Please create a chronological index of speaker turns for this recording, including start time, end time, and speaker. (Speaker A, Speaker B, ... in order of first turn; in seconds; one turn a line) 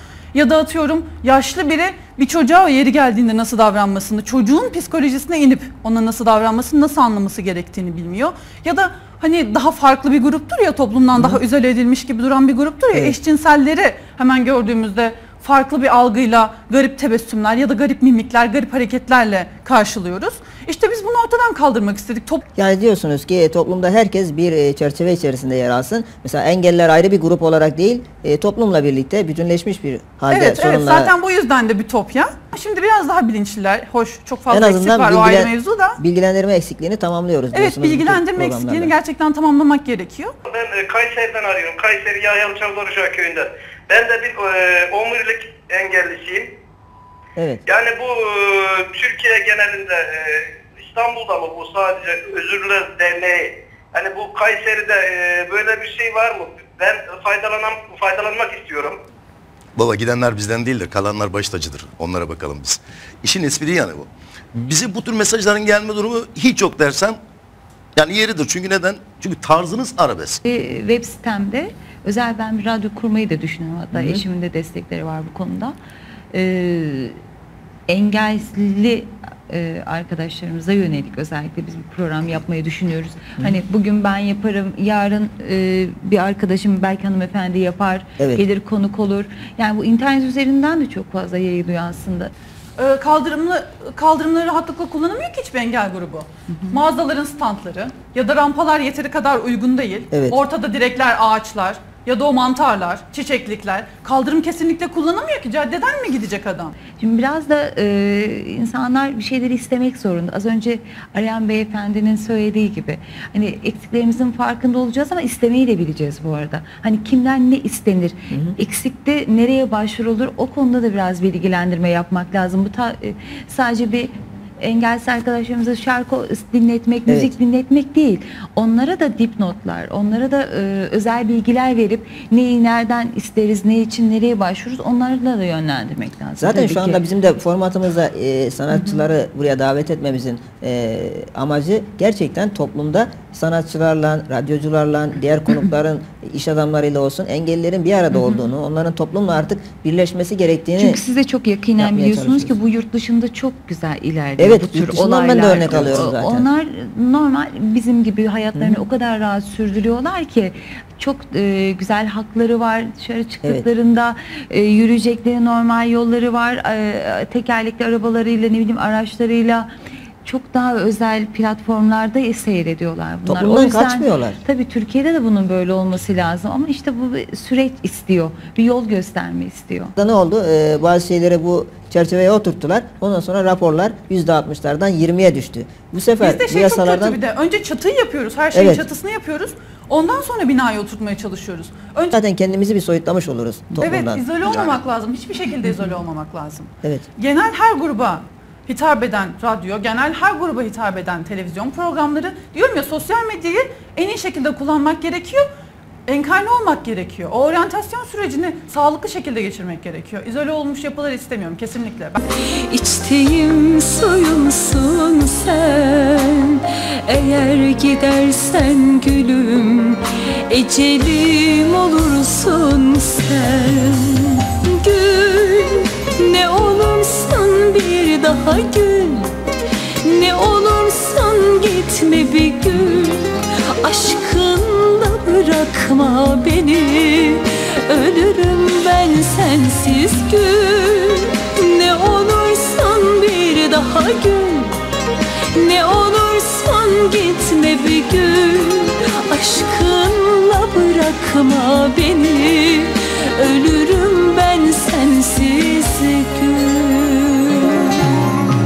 Speaker A: 0.3-22.4
Speaker B: 11.2-11.4
Speaker B: 22.6-31.1
Speaker A: 30.3-36.0
Speaker B: 34.5-38.9
Speaker A: 37.5-40.3
Speaker C: 40.5-46.5
Speaker B: 47.4-47.6
Speaker C: 47.7-59.0
Speaker D: 59.8-67.2
Speaker D: 68.0-70.4
Speaker E: 70.5-75.8
Speaker B: 73.9-74.2
Speaker E: 76.3-77.2
Speaker E: 77.9-92.3
Speaker B: 88.2-88.4
Speaker A: 92.8-106.8
Speaker E: 96.5-96.8
Speaker B: 100.1-100.4
Speaker E: 107.0-137.0
Speaker B: 127.1-127.3
Speaker B: 136.4-151.0
Speaker E: 138.7-139.1
Speaker E: 148.1-148.5
Speaker E: 150.8-169.7
Speaker B: 151.8-152.6
Speaker B: 154.4-156.5
Speaker B: 158.5-158.9
Speaker E: 170.2-179.9
Speaker B: 173.3-174.4
Speaker B: 180.0-187.2
Speaker A: 186.2-192.1
Speaker B: 188.5-188.9
Speaker B: 192.1-194.3
Speaker A: 193.8-205.5
Speaker D: 194.4-194.8
Speaker A: 206.1-212.2
Speaker F: 212.7-229.3
Speaker E: 217.1-217.4
Speaker E: 219.2-219.6
Speaker E: 223.2-224.0
Speaker E: 230.1-231.6
Speaker F: 230.1-233.2
Speaker F: 233.8-240.7
Speaker E: 234.2-234.9
Speaker E: 239.8-243.1
Speaker F: 241.7-244.7
Speaker E: 243.9-244.3
Speaker E: 245.6-252.4
Speaker F: 245.6-248.5
Speaker F: 249.3-252.9
Speaker F: 253.4-255.9
Speaker E: 253.5-254.8
Speaker E: 255.4-257.8